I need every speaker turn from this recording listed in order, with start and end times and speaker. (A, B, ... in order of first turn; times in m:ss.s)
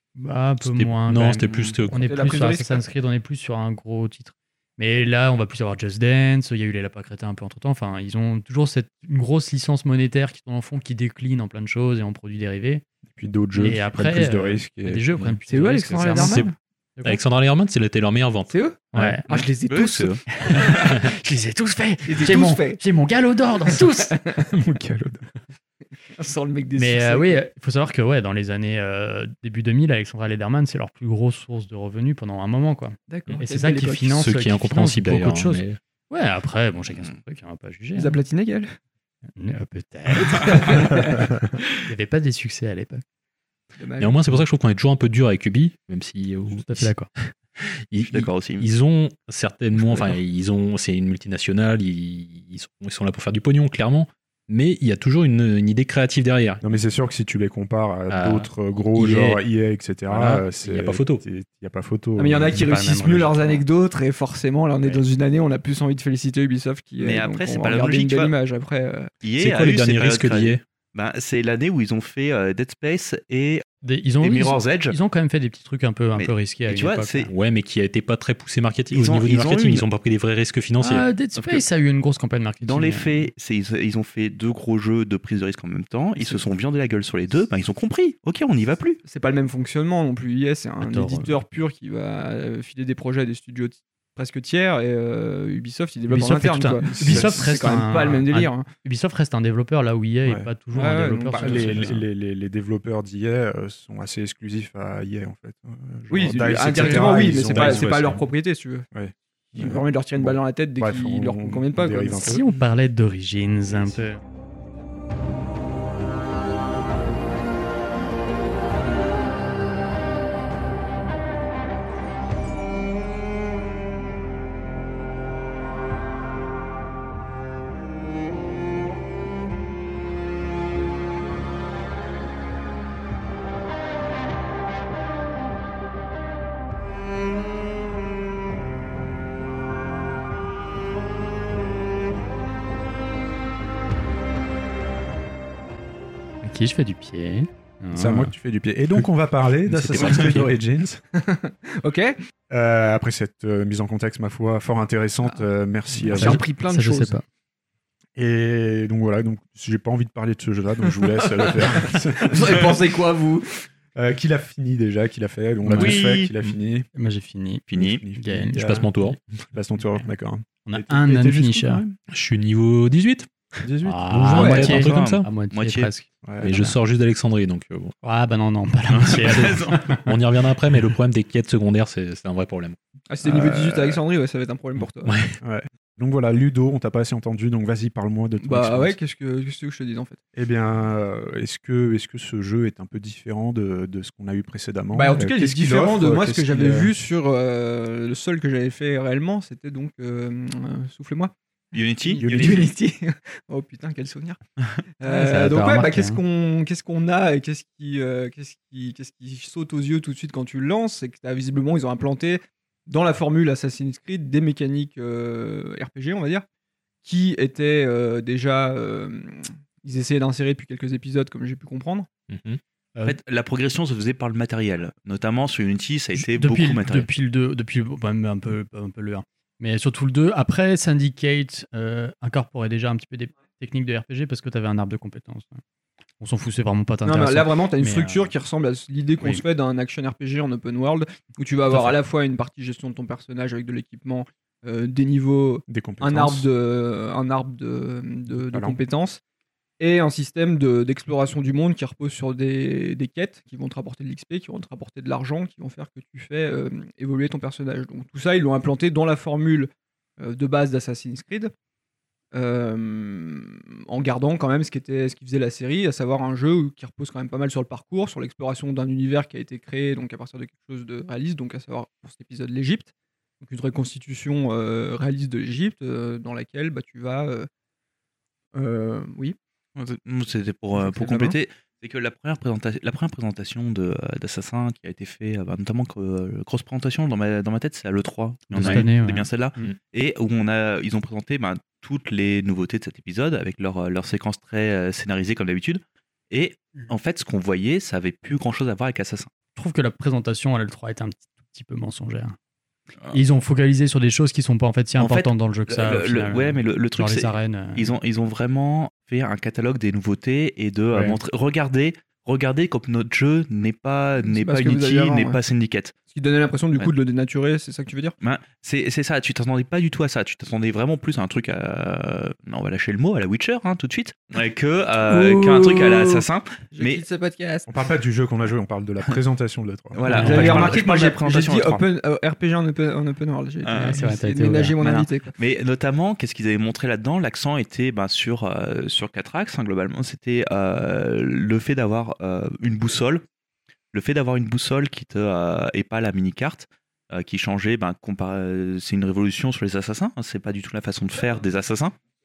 0:00.2-0:12.8 A
0:00.6-0:02.4 B
0:01.4-0:01.8 C
0:02.0-0:02.8 D
0:13.1-0:15.4 E
0:13.5-0:17.2 A
0:15.5-0:16.5 D
0:16.1-0:16.5 B
0:17.0-0:19.2 B
0:18.5-0:20.7 D
0:18.9-0:19.5 A
0:19.7-0:20.2 C
0:20.4-0:24.2 A
0:22.1-0:22.8 D
0:23.7-0:24.5 D
0:24.5-0:25.3 E
0:26.1-0:27.4 D
0:26.8-0:38.2 A
0:33.1-0:34.1 D
0:34.1-0:35.8 B
0:38.0-0:38.8 D
0:39.4-0:41.2 A
0:40.3-0:41.1 D
0:41.8-0:43.0 A
0:43.8-0:44.4 D
0:44.0-0:56.6 B
0:46.5-0:47.1 A
0:48.0-0:48.7 C
0:56.6-1:02.6 E
0:58.1-0:59.4 B
1:00.1-1:01.2 B
1:02.2-1:09.1 D
1:02.5-1:03.6 A
1:07.0-1:08.3 C
1:09.2-1:13.6 C
1:09.4-1:10.6 B
1:13.8-1:17.3 A
1:14.2-1:15.0 C
1:16.2-1:17.3 C
1:17.3-1:21.1 B
1:18.9-1:19.8 C
1:20.8-1:23.3 A
1:21.4-1:21.6 C
1:22.6-1:29.0 C
1:29.0-1:38.7 D
1:30.8-1:31.4 A
1:36.1-1:42.1 A
1:36.9-1:37.8 E
1:40.7-1:41.9 D
1:41.3-1:48.2 E
1:46.1-1:48.9 D
1:46.8-1:48.2 B
1:48.9-1:52.4 E
1:49.6-1:52.4 D
1:52.2-1:54.2 A
2:26.4-2:28.3 A
2:27.9-2:31.0 E
2:29.7-2:30.5 B
2:30.0-2:30.5 D
2:31.1-2:32.2 D
2:32.5-2:36.4 E
2:36.0-2:37.2 A
2:36.0-2:37.2 D
2:38.2-2:42.8 E
2:40.8-2:43.6 D
2:44.0-2:46.9 E
2:45.7-2:46.6 B
2:45.7-2:46.3 C
2:47.0-2:49.2 A
2:47.7-2:48.0 C
2:47.7-2:48.9 E
2:48.5-2:49.2 B
2:49.5-2:52.0 E
2:50.7-2:51.8 A
2:52.1-2:53.3 B
2:53.6-2:54.0 E
2:53.8-2:56.8 A
2:54.1-2:55.3 B
2:54.4-2:54.7 D
2:54.6-2:55.9 C
2:56.2-2:56.5 E
2:56.4-2:57.9 B
2:58.0-3:00.2 A
2:58.9-2:59.8 C
2:59.1-3:02.8 B
3:03.1-3:05.1 D
3:03.2-3:04.0 E
3:05.0-3:05.4 B
3:05.4-3:09.0 E
3:08.4-3:10.2 D
3:10.3-3:17.0 E
3:14.9-3:21.3 D
3:21.7-3:22.6 C
3:22.0-3:24.4 D
3:22.2-3:22.7 E
3:25.0-3:36.5 D
3:25.0-3:26.2 A
3:37.0-3:42.1 D
3:42.3-3:42.6 B
3:43.0-3:47.1 C
3:46.2-3:55.6 A
3:56.2-3:58.3 A
3:57.0-4:09.2 D
4:01.7-4:02.0 A
4:05.7-4:06.5 E
4:08.3-4:08.8 E
4:09.8-4:21.5 D
4:22.3-4:32.9 D
4:33.4-4:37.5 D
4:38.6-4:39.4 D
4:39.8-4:59.3 C
4:40.7-4:41.4 D
4:48.5-4:49.3 A
4:48.6-4:48.9 B
4:59.6-5:02.4 A
5:03.1-5:07.9 A
5:05.0-5:15.9 C
5:14.2-5:15.4 D
5:16.1-5:18.2 D
5:18.2-5:27.0 C
5:25.1-5:26.2 D
5:26.7-5:27.7 D
5:27.7-5:30.7 E
5:29.9-5:31.8 C
5:30.1-5:30.8 A
5:30.1-5:35.3 D
5:33.6-5:34.0 C
5:33.8-5:34.8 A
5:34.8-5:43.2 C
5:43.9-5:52.0 C